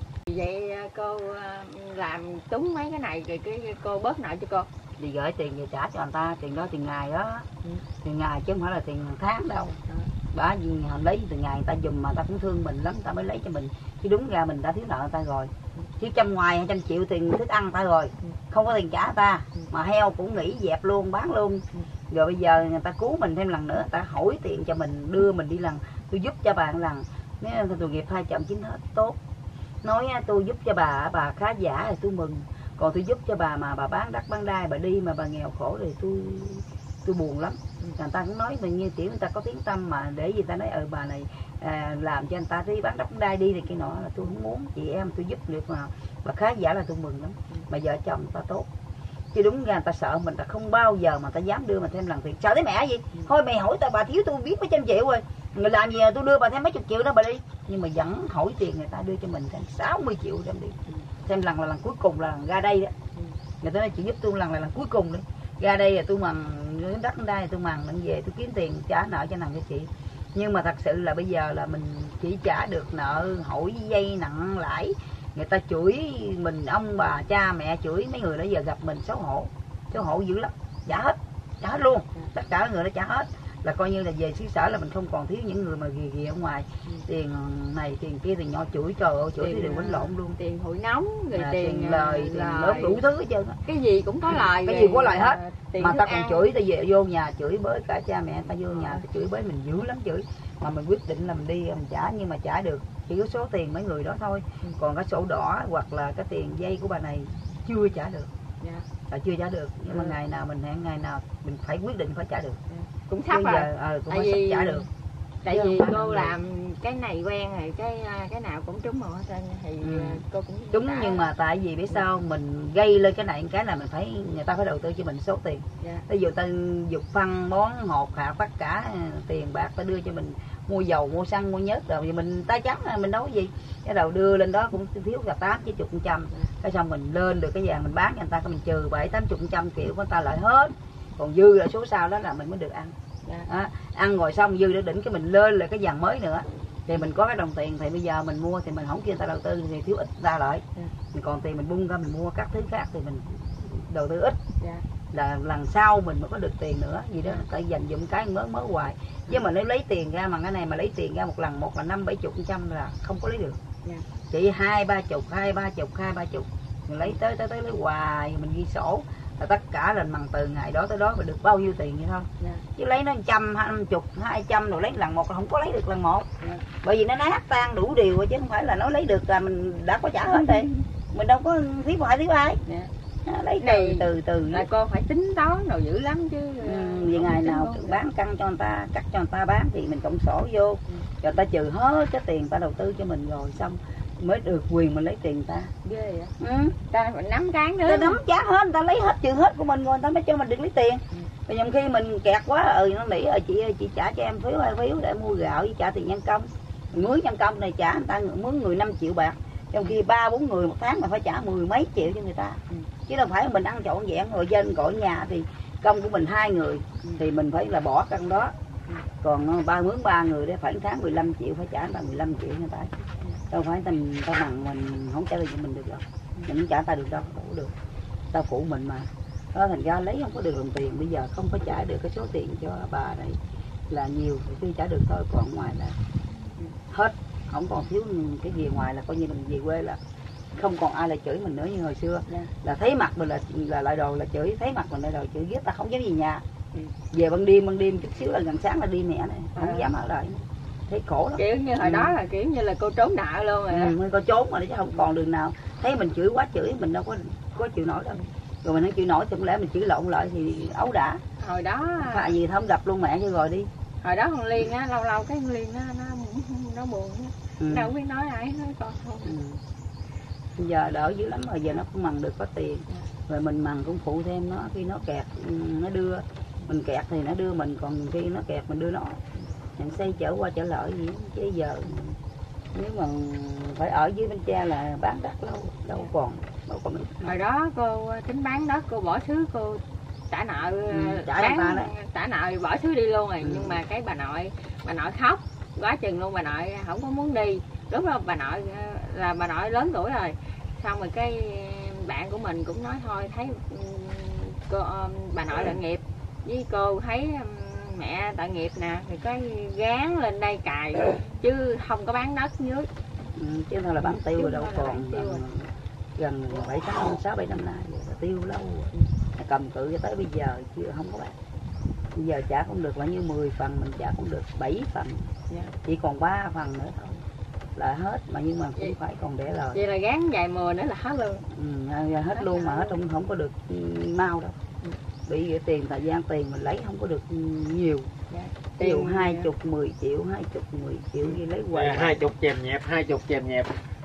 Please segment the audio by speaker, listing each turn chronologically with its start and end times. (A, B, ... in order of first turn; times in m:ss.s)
0:00.3-0:04.7 A
0:05.0-0:07.5 B
0:08.0-0:09.8 B
0:10.3-0:29.2 B
0:29.8-0:48.7 B
0:49.3-1:02.9 B
1:03.6-1:30.4 B
1:29.4-1:33.0 A
1:31.3-1:33.6 B
1:33.6-1:36.5 A
1:34.3-1:48.3 B
1:38.8-1:39.0 A
1:49.1-1:52.6 B
1:52.7-1:54.9 A
1:53.3-1:54.8 B
1:55.4-2:01.3 A
1:55.5-1:56.3 B
1:59.8-2:00.2 B
2:00.7-2:22.9 B
2:23.5-2:34.4 B
2:35.1-2:43.6 B
2:44.3-2:56.3 B
2:56.8-3:02.6 B
3:02.6-3:02.9 A
3:03.2-3:04.7 B
3:03.6-3:08.0 A
3:06.6-3:15.7 B
3:15.8-3:16.3 A
3:16.4-3:16.8 B
3:16.9-3:18.2 A
3:17.8-3:38.5 B
3:39.2-3:42.9 B
3:43.5-3:47.7 B
3:48.3-3:53.4 B
3:53.9-3:56.0 B
3:56.9-4:00.0 B
4:00.6-4:06.4 B
4:07.1-4:12.1 B
4:09.6-4:09.9 A
4:11.4-4:14.0 A
4:13.7-4:21.2 B
4:21.4-4:22.3 A
4:22.0-4:23.7 B
4:24.0-4:29.4 A
4:27.6-4:27.9 B
4:29.2-4:29.6 B
4:30.6-4:39.2 B
4:39.8-4:42.2 B
4:42.7-4:47.3 B
4:47.2-5:12.9 A
4:50.9-4:51.9 B
4:53.4-4:53.8 B
5:13.4-5:21.3 B
5:14.0-5:15.4 A
5:22.1-5:25.2 B
5:25.8-5:27.2 B
5:27.8-5:29.8 B
5:29.7-5:31.4 A
5:31.5-5:34.6 B
5:32.4-5:32.9 A
5:35.3-5:38.1 B
5:38.3-5:39.5 A
5:38.8-5:42.2 B
5:41.7-5:43.7 C